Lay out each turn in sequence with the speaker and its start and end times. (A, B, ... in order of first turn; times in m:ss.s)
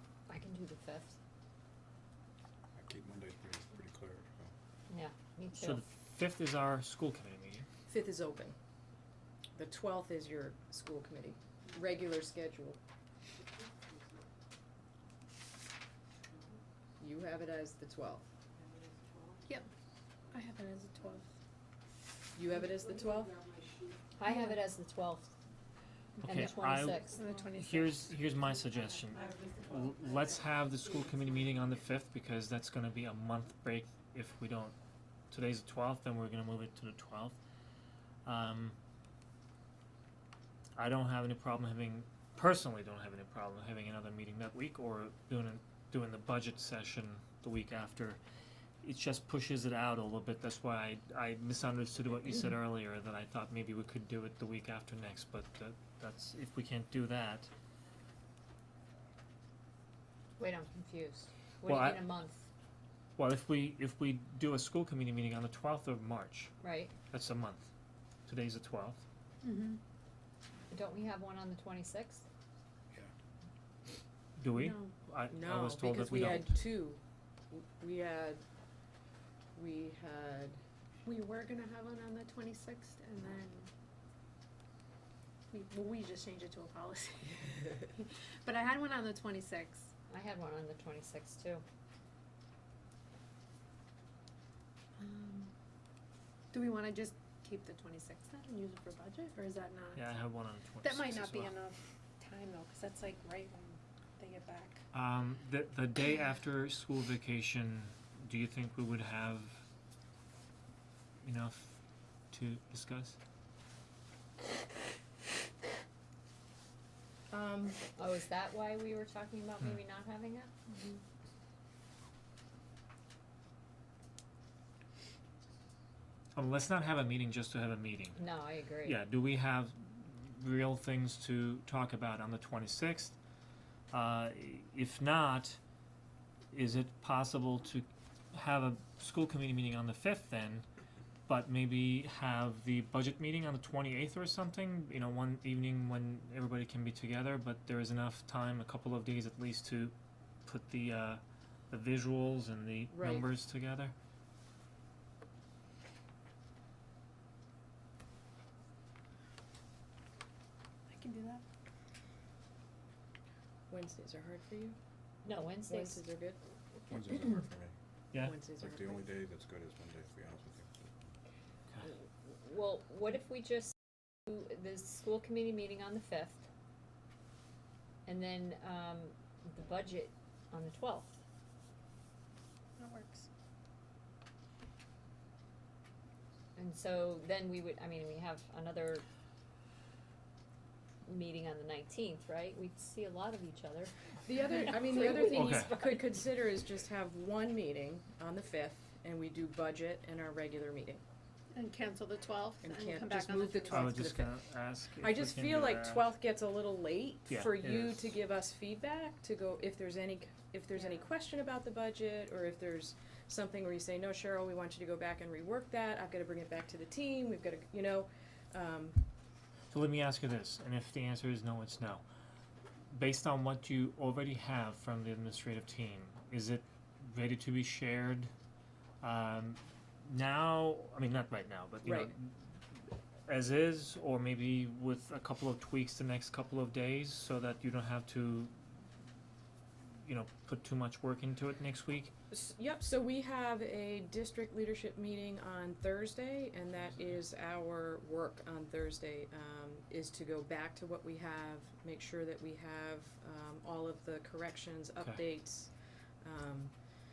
0:00.3-0:01.2 A
0:02.8-0:04.5 B
0:04.9-0:05.8 A
0:05.5-0:07.6 C
0:07.9-0:08.6 D
0:09.6-0:12.8 D
0:17.0-0:18.3 D
0:20.3-0:21.3 E
0:22.4-0:23.4 D
0:24.2-0:25.4 A
0:24.3-0:24.6 E
0:26.2-0:27.0 C
0:26.3-0:27.2 A
0:26.3-0:28.0 E
0:27.6-0:34.8 C
0:35.3-0:37.4 C
0:38.3-0:38.8 C
0:40.8-0:48.2 C
0:48.8-0:57.5 C
1:00.4-1:02.5 A
1:01.6-1:02.1 C
1:03.2-1:06.5 C
1:06.6-1:06.9 A
1:07.1-1:07.7 C
1:08.3-1:09.0 C
1:09.4-1:09.8 E
1:10.7-1:12.2 A
1:14.4-1:16.6 C
1:14.5-1:14.9 E
1:15.3-1:18.4 D
1:19.6-1:20.6 D
1:21.0-1:23.7 E
1:25.5-1:29.9 E
1:30.1-1:31.6 A
1:35.0-1:35.5 E
1:36.5-1:40.1 E
1:40.0-1:41.5 C
1:40.8-1:44.8 E
1:44.9-1:49.6 C
1:51.2-1:51.8 C
1:52.3-1:53.2 C
1:57.3-1:57.8 D
1:58.0-2:00.5 A
2:00.7-2:01.0 E
2:06.4-2:08.2 C
2:08.2-2:09.0 A
2:08.8-2:13.2 C
2:13.9-2:15.6 C
2:16.5-2:20.7 C
2:21.3-2:30.0 C
2:30.5-2:33.9 C
2:32.9-2:33.3 D
2:40.9-2:41.4 E
2:43.7-2:44.8 D
2:45.2-2:46.0 A
2:45.7-2:46.4 D
2:46.9-2:47.7 B
2:48.2-2:49.1 D
2:48.6-2:50.7 B
2:51.9-2:53.7 A
2:54.3-2:56.5 A
2:58.1-3:01.2 A
3:02.8-3:03.3 E
3:06.6-3:09.0 A
3:11.0-3:13.9 A
3:14.3-3:21.0 D
3:14.5-3:16.1 A
3:15.3-3:15.7 C
3:21.5-3:24.2 E
3:22.6-3:24.4 D
3:23.7-3:26.1 C
3:25.0-3:39.0 D
3:27.3-3:28.1 C
3:39.7-3:42.0 C
3:42.9-3:48.3 C
3:49.0-3:58.6 C
3:51.8-3:52.1 D
4:00.0-4:02.1 C
4:02.3-4:16.7 D